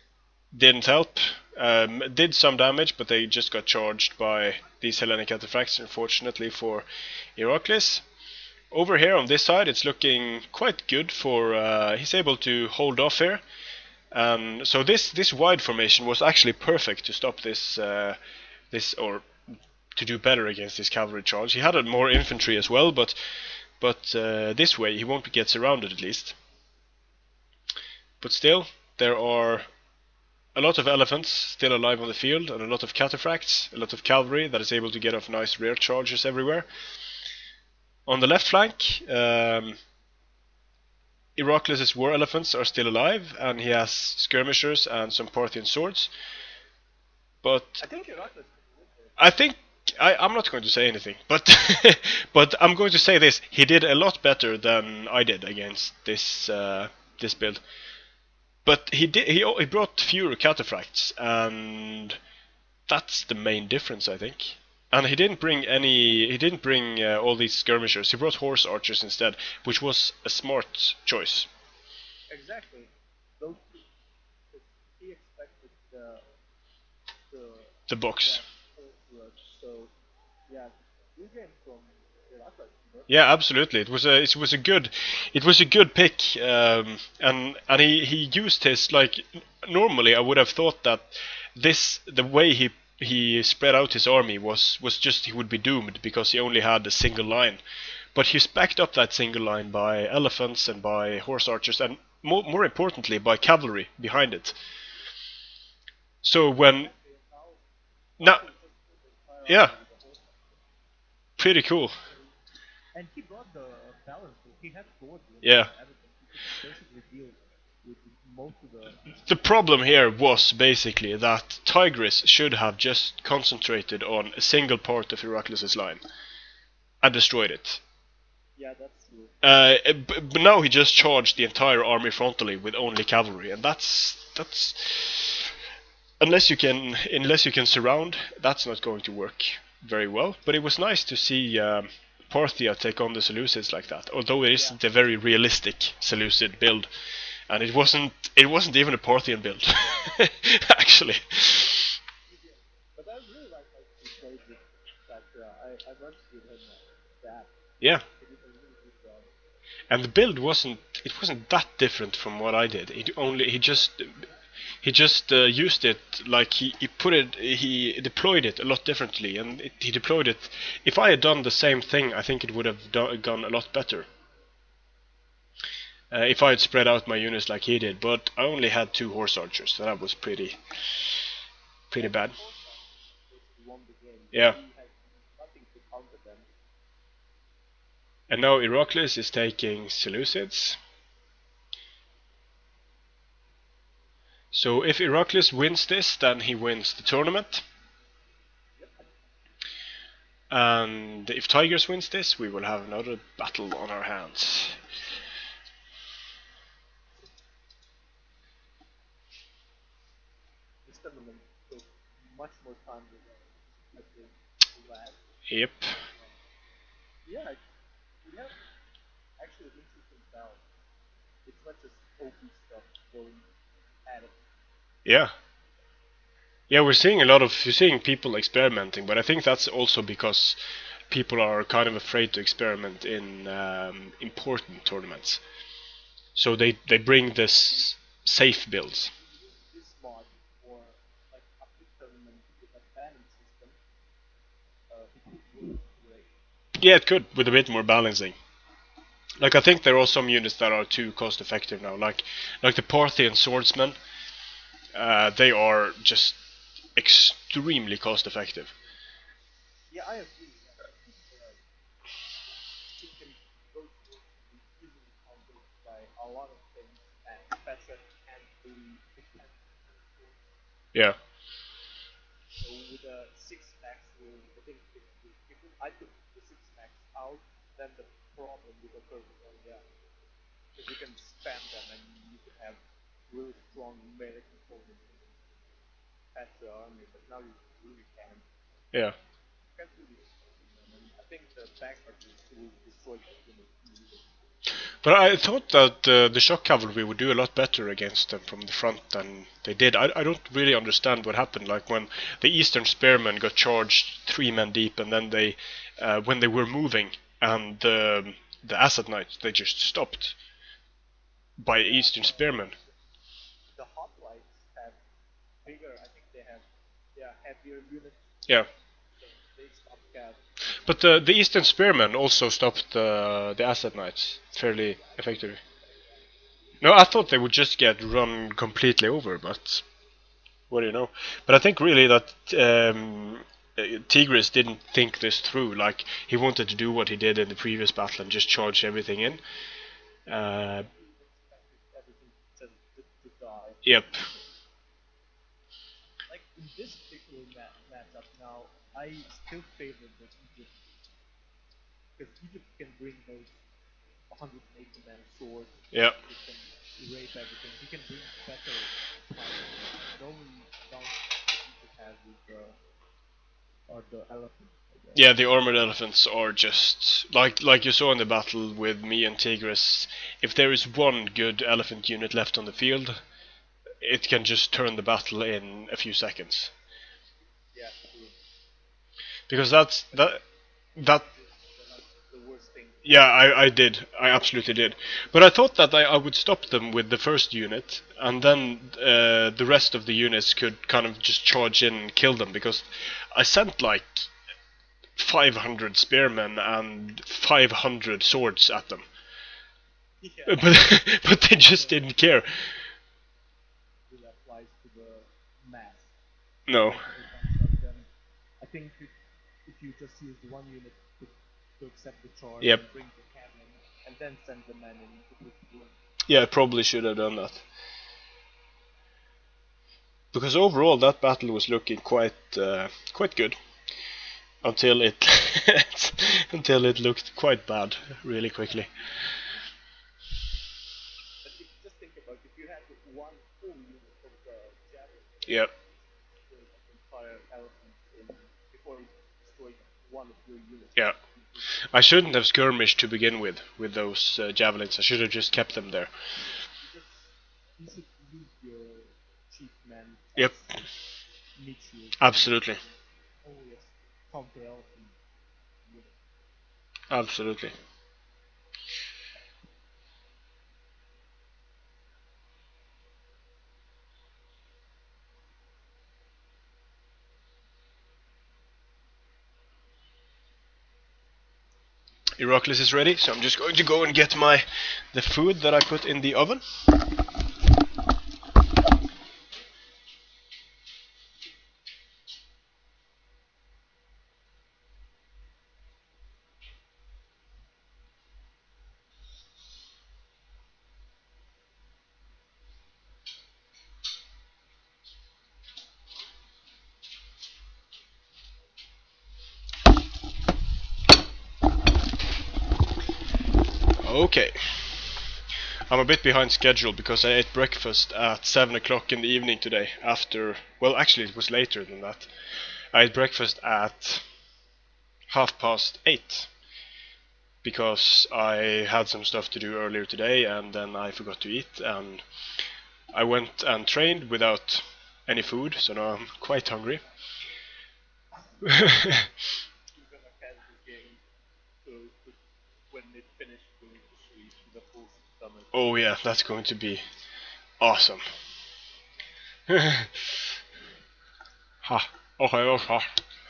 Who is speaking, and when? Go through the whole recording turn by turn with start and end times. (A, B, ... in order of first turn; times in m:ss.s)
0:00.5-0:08.0 A
0:08.7-0:13.4 A
0:14.1-0:18.2 A
0:18.7-0:19.3 A
0:20.0-0:23.2 A
0:23.8-0:26.4 A
0:28.2-0:29.7 A
0:30.6-0:36.7 A
0:38.1-0:39.8 A
0:41.4-0:46.1 A
0:47.4-0:47.8 A
0:47.8-0:49.2 B
0:49.2-0:57.6 A
0:58.6-1:02.2 A
1:02.9-1:11.5 A
1:12.3-1:13.9 B
1:14.5-1:16.3 B
1:17.3-1:19.9 B
1:17.9-1:18.4 A
1:20.5-1:23.1 B
1:23.1-1:37.6 A
1:38.2-1:44.6 A
1:46.2-1:46.9 A
1:46.6-1:47.6 B
1:48.2-1:50.6 B
1:49.5-1:49.7 A
1:51.4-1:52.0 A
1:52.9-1:59.4 B
1:55.4-1:55.7 A
1:59.1-2:06.0 A
2:07.0-2:07.8 A
2:08.6-2:09.3 B
2:09.4-2:15.6 A
2:16.2-2:26.9 A
2:27.5-2:31.9 A
2:31.6-2:37.5 B
2:38.1-2:39.3 B
2:39.9-2:44.2 A
2:44.8-2:54.1 A
2:56.1-3:00.6 A
3:01.9-3:02.4 A
3:02.0-3:06.5 B
3:08.3-3:10.8 A
3:14.5-3:17.6 A
3:18.8-3:19.0 B
3:20.5-3:24.8 A
3:30.9-3:35.2 B
3:35.5-3:36.0 A
3:37.2-3:37.6 B
3:38.2-3:38.6 B
3:39.4-3:40.6 B
3:41.4-3:43.5 B
3:44.0-3:44.4 B
3:45.1-3:45.3 A
3:46.7-3:50.6 A
3:51.1-3:55.4 A
3:56.4-3:59.1 A
3:59.1-4:03.8 B
4:04.9-4:06.3 B
4:06.8-4:08.4 A
4:09.4-4:14.0 A
4:14.9-4:16.4 A
4:17.0-4:18.7 A
4:19.9-4:21.6 B
4:22.9-4:30.5 B
4:32.6-4:39.8 B
4:40.8-4:45.4 B
4:46.3-4:48.5 B
4:49.7-4:54.3 B
4:55.0-5:10.4 A
5:11.6-5:12.7 A
5:11.7-5:12.9 B
5:13.8-5:15.0 B
5:15.6-5:18.5 B
5:19.2-5:20.4 B
5:20.8-5:25.6 A
5:24.9-5:25.6 B
5:26.8-5:29.8 A
5:30.7-5:39.4 A
5:40.3-5:40.9 A
5:40.8-5:43.8 B
5:43.8-5:44.2 A
5:46.3-5:50.8 B
5:52.2-5:53.6 B
5:54.3-6:02.8 B
5:55.9-5:56.2 A
6:03.9-6:05.3 B
6:05.2-6:13.2 A
6:14.0-6:16.7 A
6:17.7-6:18.4 B
6:19.5-6:20.4 A
6:21.0-6:21.2 A
6:21.0-6:23.3 B
6:23.0-6:34.3 A
6:35.2-6:39.1 A
6:40.2-6:42.1 B
6:40.5-6:42.5 A
6:44.1-6:46.1 B
6:46.7-6:47.0 A
6:46.8-6:48.1 B
6:48.6-6:56.0 B
6:56.3-6:57.6 A
7:00.3-7:03.6 A
7:04.6-7:08.9 A
7:11.4-7:21.6 B
7:15.5-7:15.7 A
7:21.8-7:26.1 A
7:26.8-7:30.8 B
7:31.6-7:35.2 B
7:32.2-7:32.8 A
7:35.8-7:36.2 B
7:37.1-7:37.7 A
7:52.4-7:56.6 A
8:24.0-8:25.1 A
8:25.9-8:32.3 A
8:32.9-8:34.2 A
8:35.3-8:36.5 A
8:37.6-8:42.2 A
8:43.1-8:47.0 A
8:48.6-8:49.3 A
8:48.7-8:51.2 B
8:51.8-8:52.4 B
8:52.9-8:55.8 B
8:55.7-8:57.0 A
8:57.8-8:58.3 A
8:59.7-9:00.2 A
9:01.8-9:03.1 A